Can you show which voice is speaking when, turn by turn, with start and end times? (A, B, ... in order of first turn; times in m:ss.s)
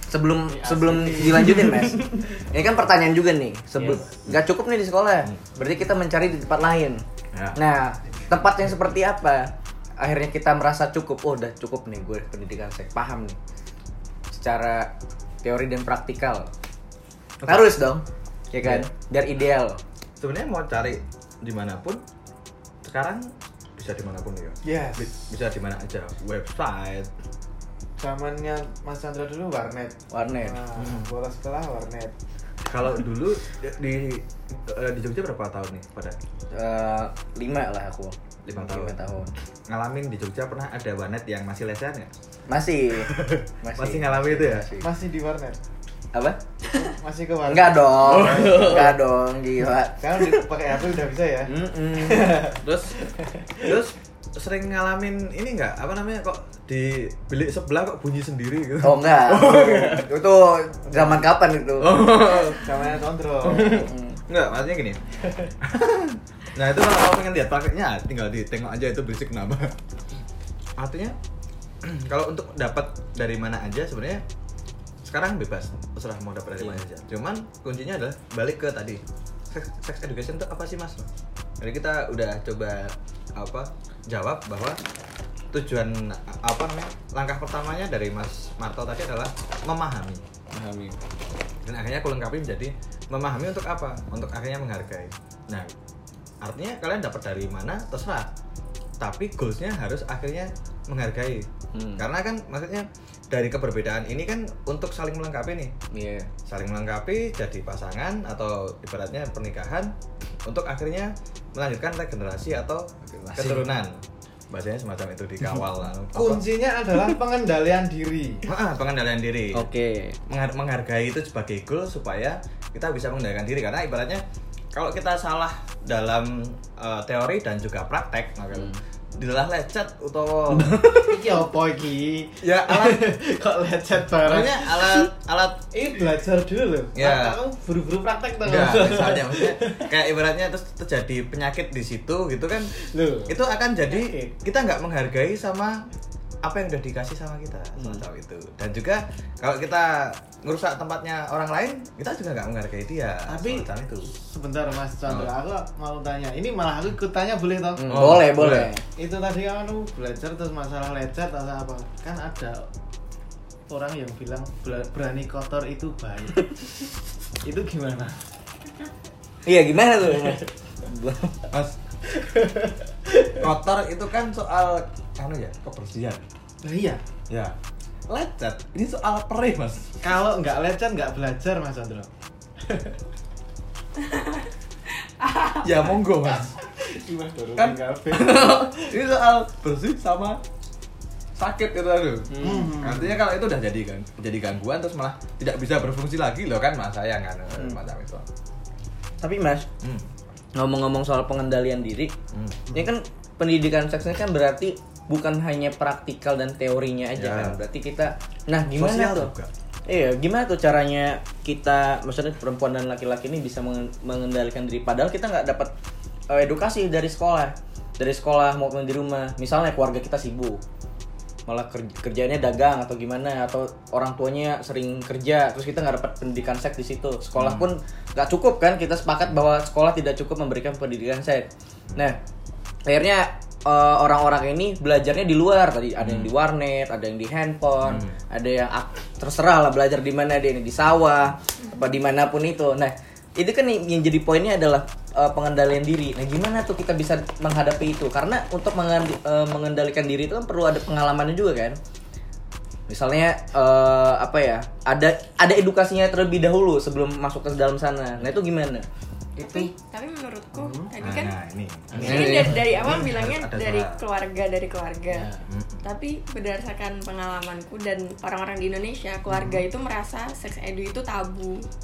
0:00.1-0:07.0 A
0:00.5-0:02.1 B
0:03.8-0:04.3 C
0:07.3-0:07.6 C
0:07.6-0:13.4 A
0:14.3-0:14.9 A
0:15.4-0:16.5 A
0:17.4-0:17.8 C
0:17.4-0:19.8 A
0:18.6-0:18.9 C
0:20.2-0:22.0 C
0:22.8-0:27.1 C
0:24.6-0:25.1 B
0:28.0-0:32.2 B
0:30.1-0:30.6 A
0:30.8-0:31.1 C
0:32.7-0:36.2 C
0:36.5-0:39.3 A
0:38.4-0:39.0 C
0:39.7-0:42.1 C
0:42.5-0:44.9 A
0:43.0-0:44.7 C
0:44.8-0:45.6 B
0:46.1-0:46.4 A
0:46.7-0:49.0 B
0:47.5-0:50.4 A
0:48.1-0:48.9 C
0:50.0-0:52.6 B
0:51.5-0:52.5 A
0:52.6-0:53.0 C
0:53.6-1:00.1 C
0:58.8-1:02.1 A
1:01.8-1:02.6 C
1:02.5-1:03.9 B
1:03.5-1:05.0 C
1:03.5-1:04.2 A
1:05.6-1:09.8 C
1:10.8-1:11.2 C
1:11.8-1:14.2 C
1:15.0-1:21.1 C
1:21.6-1:24.8 C
1:25.5-1:30.2 C
1:30.5-1:31.0 A
1:31.6-1:35.7 C
1:36.4-1:38.3 C
1:39.0-1:45.7 C
1:41.7-1:42.1 A
1:45.9-1:46.3 A
1:46.5-1:49.9 C
1:50.5-1:56.4 C
1:53.1-1:53.7 A
1:56.1-1:58.5 B
1:58.5-1:59.7 C
1:59.5-2:00.2 A
2:00.3-2:10.9 C
2:08.5-2:08.8 A
2:10.5-2:11.2 A
2:11.0-2:15.1 B
2:12.4-2:13.1 C
2:14.2-2:15.7 C
2:15.7-2:19.9 B
2:17.0-2:17.4 C
2:18.4-2:22.7 C
2:22.8-2:24.3 B
2:23.3-2:25.8 C
2:26.4-2:34.1 C
2:33.3-2:38.0 B
2:35.1-2:35.3 C
2:37.8-2:38.8 A
2:37.9-2:38.7 C
2:39.0-2:42.7 B
2:43.7-2:46.9 B
2:47.4-2:48.2 B
2:49.4-2:51.4 A
2:51.5-2:51.8 C
2:52.2-2:52.7 B
2:53.4-2:56.2 C
2:56.6-2:57.0 B
2:57.3-2:57.6 C
2:58.1-3:00.0 C
3:00.0-3:02.1 B
3:02.7-3:02.9 B
3:05.6-3:06.5 C
3:06.8-3:08.6 B
3:07.6-3:10.4 C
3:11.4-3:18.3 C
3:12.3-3:12.7 A
3:12.4-3:13.2 B
3:19.2-3:19.7 A
3:19.8-3:20.1 C
3:20.6-3:22.1 A
3:22.3-3:22.6 C
3:22.7-3:29.3 A
3:27.2-3:27.6 C
3:28.7-3:29.5 C
3:29.9-3:35.7 A
3:36.3-3:40.6 A
3:41.5-3:52.2 A
3:47.4-3:47.7 C
3:52.9-4:11.8 A
3:56.0-3:56.3 C
3:57.8-3:58.2 C
4:12.9-4:18.9 A
4:19.4-4:19.7 B
4:19.4-4:21.4 D
4:20.5-4:20.9 B
4:21.0-4:24.0 C
4:21.9-4:25.3 D
4:22.0-4:22.6 A
4:22.0-4:22.6 B
4:25.1-4:25.4 B
4:25.5-4:25.8 C
4:25.8-4:31.6 D
4:29.3-4:29.6 B